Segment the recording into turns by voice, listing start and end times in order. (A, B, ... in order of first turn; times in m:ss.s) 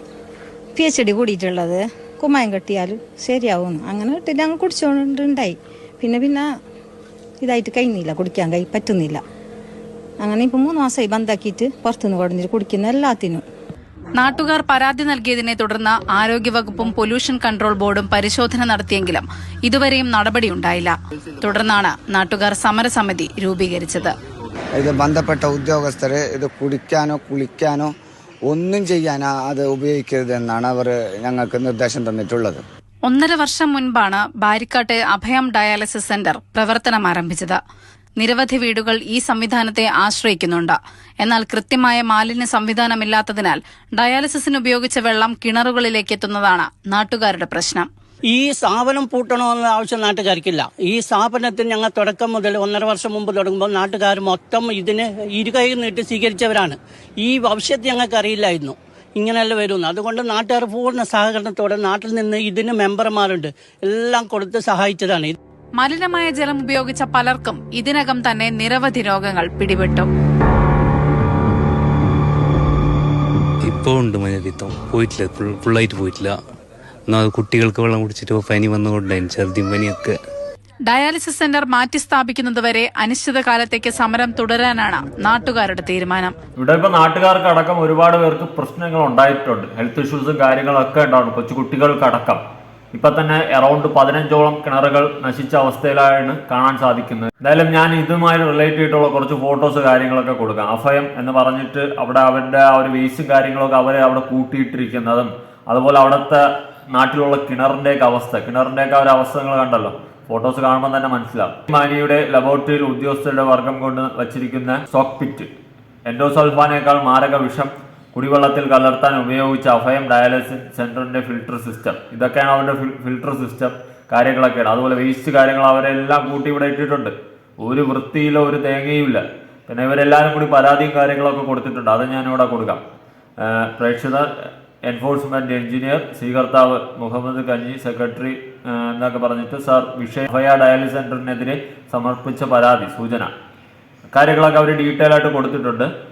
0:00.8-0:06.5 A
0:07.4-0:09.2 A
0:10.2-0:13.4 A
0:14.2-0:24.1 B
0:24.8-0:27.9 C
0:28.5-0:32.6 C
0:33.0-0:37.6 B
0:38.2-0:47.9 B
0:48.3-1:05.4 D
1:05.8-1:10.1 B
1:13.6-1:16.4 E
1:17.1-1:20.2 E
1:20.9-1:26.3 B
1:26.6-1:32.4 F
1:32.9-1:55.5 F
1:56.1-2:12.8 F
2:13.4-2:23.3 F
2:24.1-2:25.9 F